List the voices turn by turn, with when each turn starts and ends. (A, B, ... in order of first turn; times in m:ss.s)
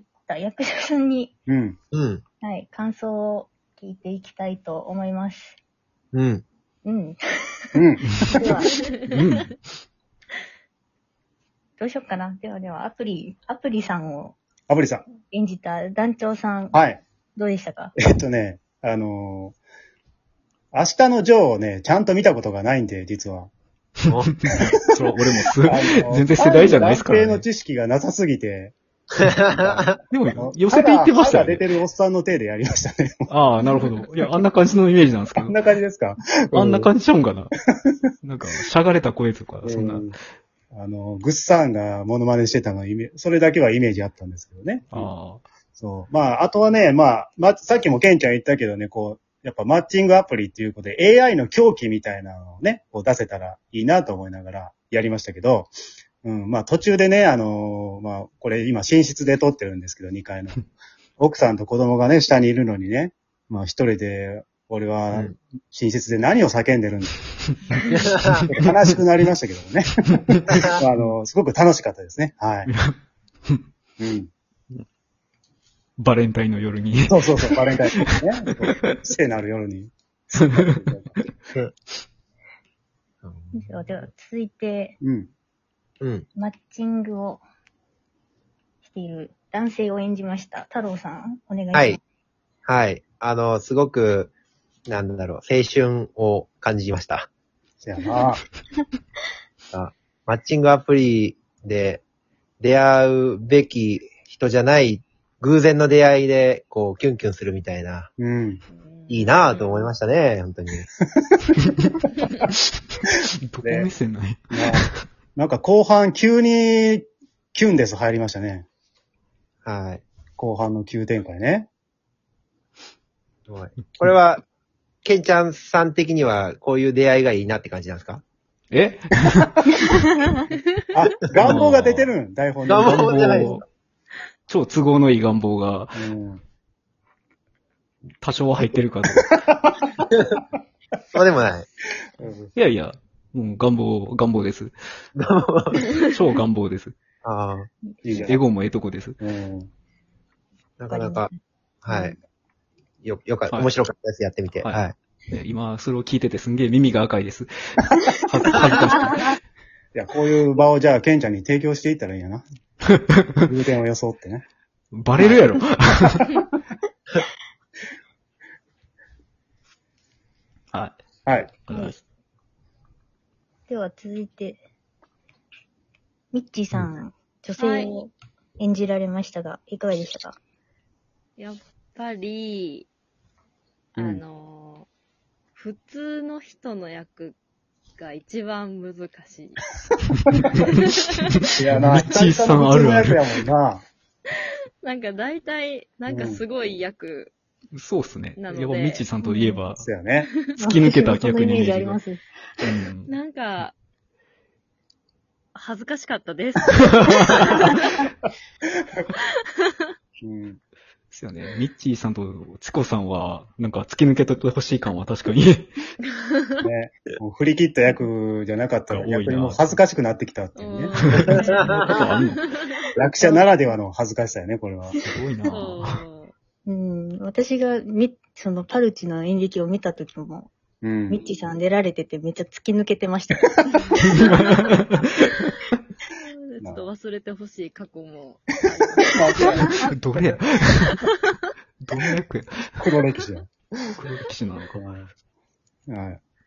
0:00.2-0:01.3 A
0:01.5-0:01.8 B
0:01.9-0:02.2 C
0:02.4-0:05.6 A
0:06.1-0:06.4 C
0:06.8-0:07.6 A
0:07.7-0:08.6 B
0:08.3-0:08.7 A
0:08.9-0:09.2 D
0:09.1-0:09.6 E
0:11.8-0:14.4 A
0:14.7-0:15.0 B
0:15.3-0:16.8 A
0:16.7-0:17.0 B
0:17.3-0:17.9 A
0:18.0-0:19.6 B
0:20.7-0:23.5 B
0:24.1-0:24.3 C
0:24.3-0:27.4 E
0:25.7-0:28.7 B
0:29.2-0:30.0 C
0:29.5-0:33.3 B
0:30.1-0:31.7 E
0:33.3-0:35.6 E
0:35.4-0:36.9 B
0:36.5-0:37.5 E
0:37.7-0:38.0 B
0:38.2-0:40.1 E
0:39.6-0:40.1 B
0:40.7-0:45.1 B
0:44.9-0:45.4 E
0:45.8-0:55.7 B
0:56.2-1:00.7 B
1:01.2-1:07.2 B
1:07.5-1:07.8 E
1:07.9-1:08.4 C
1:08.3-1:08.7 E
1:08.5-1:12.7 B
1:12.7-1:13.6 E
1:14.0-1:14.3 B
1:16.0-1:18.2 E
1:17.1-1:21.3 B
1:23.2-1:23.8 C
1:23.5-1:24.9 A
1:25.0-1:25.3 B
1:26.0-1:26.2 C
1:26.3-1:27.4 A
1:28.8-1:32.0 A
1:31.7-1:32.0 C
1:32.6-1:34.3 C
1:34.9-1:37.3 C
1:37.8-1:38.4 B
1:39.7-1:42.0 C
1:42.6-1:48.1 C
1:48.2-1:48.6 B
1:48.7-1:49.9 D
1:49.1-1:50.9 C
1:51.2-1:51.5 B
1:51.6-1:51.9 E
1:53.0-1:55.0 E
1:53.6-1:53.9 B
1:54.5-1:54.8 B
1:55.4-1:58.6 B
1:59.6-2:00.0 C
2:00.4-2:01.7 B
2:03.5-2:04.4 C
2:05.0-2:08.2 C
2:08.7-2:10.0 E
2:10.9-2:13.6 B
2:11.4-2:12.1 E
2:12.7-2:13.6 C
2:12.7-2:13.6 E
2:14.5-2:16.0 E
2:16.0-2:16.4 B
2:18.2-2:19.4 E
2:19.3-2:20.0 B
2:20.1-2:20.4 C
2:21.1-2:21.7 C
2:22.2-2:22.5 B
2:22.5-2:24.7 E
2:25.2-2:26.0 C
2:26.0-2:27.0 E
2:27.2-2:27.7 C
2:28.0-2:28.4 B
2:28.2-2:29.2 E
2:29.2-2:29.7 B
2:30.8-2:31.3 C
2:30.9-2:31.3 A
2:31.8-2:32.2 C
2:31.9-2:32.2 A
2:33.0-2:34.9 C
2:34.6-2:39.4 E
2:39.9-2:42.4 B
2:43.0-2:43.3 E
2:43.4-2:44.4 B
2:44.9-2:46.4 E
2:50.7-2:51.0 E
2:51.2-2:51.5 B
2:51.6-2:51.9 E
2:51.7-2:52.0 A
2:53.7-2:54.6 A
2:56.3-3:00.4 A
2:57.6-2:57.9 D
3:01.4-3:02.9 D
3:04.0-3:04.9 D
3:04.0-3:04.2 B
3:05.5-3:07.4 D
3:08.0-3:09.8 D
3:10.3-3:10.6 E
3:10.6-3:11.2 D
3:11.3-3:13.3 E
3:11.6-3:13.8 B
3:14.8-3:17.3 D
3:16.1-3:16.4 B
3:17.7-3:19.8 E
3:18.4-3:19.2 D
3:19.2-3:19.6 A
3:19.8-3:20.3 B
3:20.2-3:20.5 D
3:20.6-3:22.2 A
3:20.6-3:22.0 E
3:22.6-3:23.1 E
3:23.1-3:23.7 D
3:25.5-3:28.0 D
3:26.8-3:27.7 E
3:30.2-3:30.6 B
3:31.1-3:35.8 E
3:36.2-3:36.5 D
3:36.6-3:41.0 B
3:38.9-3:39.8 E
3:40.6-3:42.8 D
3:41.0-3:42.4 E
3:41.1-3:42.0 C
3:43.0-3:45.0 B
3:45.0-3:46.0 E
3:45.5-3:46.3 D
3:46.6-3:50.5 A
3:50.8-3:51.2 B
3:51.1-3:54.2 A
3:53.7-3:54.7 D
3:54.1-3:55.5 E
3:56.1-3:59.7 D
3:56.6-3:56.9 B
3:59.1-3:59.8 B
3:59.8-4:01.0 E
4:01.8-4:02.9 E
4:02.8-4:03.5 B
4:03.9-4:04.7 E
4:04.7-4:05.1 B
4:05.9-4:06.2 B